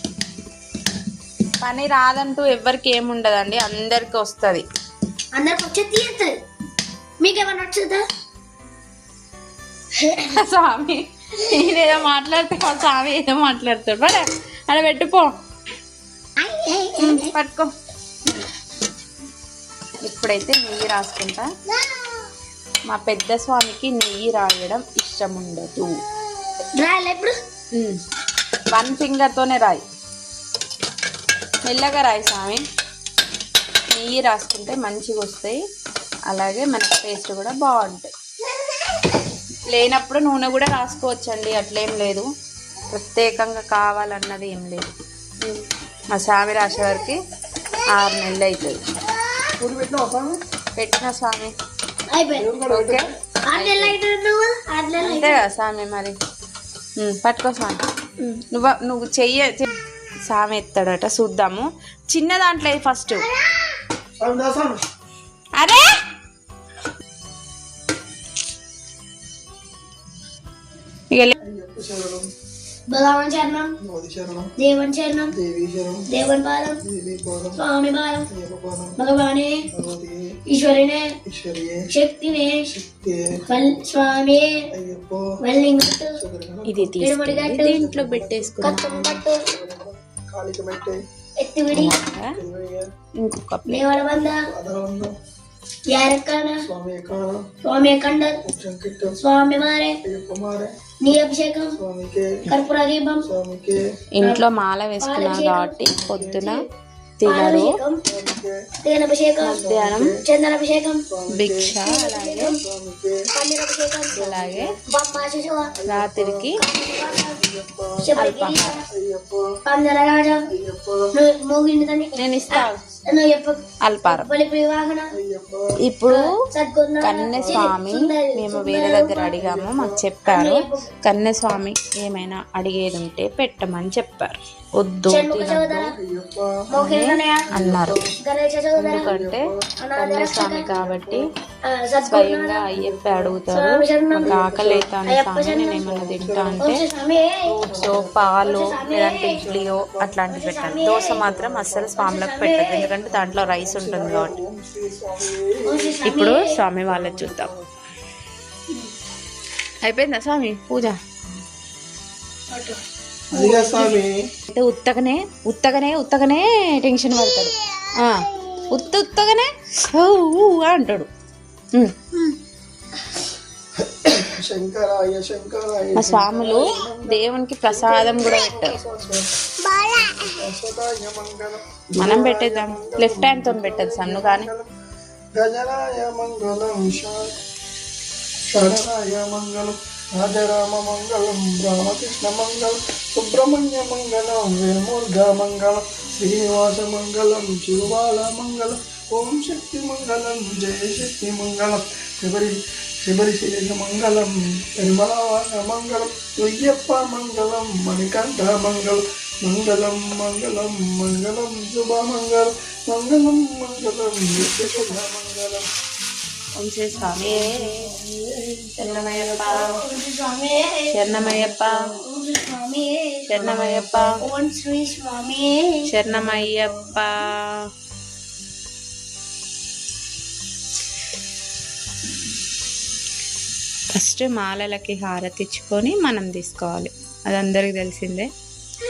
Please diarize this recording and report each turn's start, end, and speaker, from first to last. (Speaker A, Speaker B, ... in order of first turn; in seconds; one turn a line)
Speaker A: 1.6-4.6
Speaker B: 5.3-6.3
Speaker B: 7.2-8.0
Speaker B: 10.0-10.3
Speaker A: 10.3-15.3
Speaker B: 16.4-17.3
Speaker A: 17.0-17.7
Speaker A: 20.0-21.5
Speaker A: 22.9-26.0
Speaker B: 26.8-27.4
Speaker A: 27.7-28.0
Speaker A: 28.7-29.8
Speaker A: 31.6-32.6
Speaker A: 33.9-35.6
Speaker A: 36.3-38.1
Speaker A: 39.7-42.2
Speaker A: 42.9-44.9
Speaker A: 46.1-47.2
Speaker A: 47.9-48.8
Speaker C: 49.6-50.4
Speaker A: 50.8-51.5
Speaker B: 52.1-52.5
Speaker C: 52.3-53.1
Speaker A: 52.7-54.0
Speaker B: 53.5-55.4
Speaker A: 55.0-56.1
Speaker A: 57.0-57.8
Speaker A: 58.5-59.7
Speaker A: 60.2-63.2
Speaker B: 63.3-63.7
Speaker C: 64.2-64.8
Speaker A: 65.6-65.9
Speaker C: 71.4-72.3
Speaker B: 72.9-73.8
Speaker C: 73.8-74.5
Speaker B: 74.6-75.3
Speaker C: 75.3-76.1
Speaker B: 76.1-76.8
Speaker C: 76.8-77.6
Speaker B: 77.5-78.3
Speaker C: 78.3-79.0
Speaker B: 79.0-79.6
Speaker C: 79.7-80.4
Speaker B: 80.5-81.2
Speaker C: 81.2-81.9
Speaker B: 81.9-82.7
Speaker C: 82.7-83.4
Speaker B: 83.5-84.7
Speaker C: 84.7-85.3
Speaker B: 85.4-86.2
Speaker C: 86.0-87.0
Speaker A: 86.7-89.2
Speaker B: 87.0-87.8
Speaker C: 87.6-88.8
Speaker B: 88.6-89.4
Speaker C: 89.4-91.0
Speaker B: 91.4-92.0
Speaker A: 91.7-92.4
Speaker C: 92.3-92.9
Speaker A: 93.2-93.8
Speaker B: 93.7-94.5
Speaker C: 94.5-95.1
Speaker B: 95.9-96.7
Speaker C: 96.6-97.4
Speaker B: 97.6-98.4
Speaker C: 98.4-99.2
Speaker B: 99.2-100.0
Speaker C: 100.0-100.7
Speaker B: 101.0-101.8
Speaker C: 101.7-102.5
Speaker B: 102.5-103.3
Speaker C: 103.2-103.8
Speaker A: 104.2-106.6
Speaker B: 105.0-105.8
Speaker C: 105.8-106.4
Speaker A: 107.2-107.8
Speaker B: 107.2-108.0
Speaker C: 108.0-108.6
Speaker B: 108.8-109.6
Speaker A: 109.4-110.2
Speaker C: 109.6-110.2
Speaker B: 110.2-111.0
Speaker C: 111.1-111.7
Speaker A: 111.3-112.6
Speaker B: 111.8-112.6
Speaker C: 112.6-113.2
Speaker B: 113.3-114.3
Speaker C: 114.1-114.8
Speaker A: 114.2-114.7
Speaker B: 114.9-115.7
Speaker C: 115.8-118.1
Speaker A: 115.8-116.6
Speaker B: 116.6-117.4
Speaker B: 118.0-118.8
Speaker A: 118.2-118.8
Speaker C: 118.9-119.6
Speaker B: 119.7-120.5
Speaker C: 120.5-121.1
Speaker B: 121.1-125.1
Speaker A: 122.2-122.8
Speaker A: 123.8-124.3
Speaker C: 125.1-125.8
Speaker A: 125.8-126.3
Speaker B: 126.1-129.3
Speaker A: 127.0-135.9
Speaker C: 127.3-127.7
Speaker C: 129.3-130.0
Speaker B: 130.2-130.9
Speaker B: 135.1-135.9
Speaker C: 135.9-136.7
Speaker B: 136.7-137.5
Speaker A: 136.8-138.0
Speaker C: 137.5-138.2
Speaker B: 138.2-139.1
Speaker C: 138.8-139.8
Speaker A: 138.8-141.3
Speaker B: 139.8-140.8
Speaker C: 140.7-141.3
Speaker B: 141.7-142.7
Speaker A: 142.1-146.8
Speaker C: 142.7-143.4
Speaker B: 143.5-144.4
Speaker C: 144.2-145.0
Speaker B: 145.1-145.8
Speaker C: 145.8-146.6
Speaker B: 146.6-147.5
Speaker C: 147.4-148.2
Speaker A: 147.8-154.4
Speaker B: 148.4-149.4
Speaker C: 149.3-150.2
Speaker B: 150.3-151.3
Speaker C: 151.2-152.0
Speaker B: 152.0-152.9
Speaker C: 153.0-156.0
Speaker B: 155.7-156.6
Speaker A: 156.0-157.5
Speaker C: 156.8-157.8
Speaker A: 159.8-161.0
Speaker B: 162.5-162.8
Speaker C: 163.3-164.2
Speaker B: 163.3-164.0
Speaker A: 164.5-171.1
Speaker C: 173.8-179.3
Speaker A: 175.9-178.8
Speaker B: 179.7-180.2
Speaker C: 180.2-184.7
Speaker A: 182.0-184.5
Speaker C: 185.3-187.3
Speaker C: 188.5-215.7
Speaker B: 214.6-215.0
Speaker A: 216.6-217.9
Speaker B: 217.2-223.6
Speaker A: 218.8-219.8
Speaker C: 218.8-219.7
Speaker A: 220.9-221.8
Speaker C: 221.1-221.5
Speaker A: 223.3-224.2
Speaker C: 223.5-224.2
Speaker B: 224.2-225.9
Speaker A: 225.8-227.5
Speaker C: 226.1-226.7
Speaker A: 233.9-238.3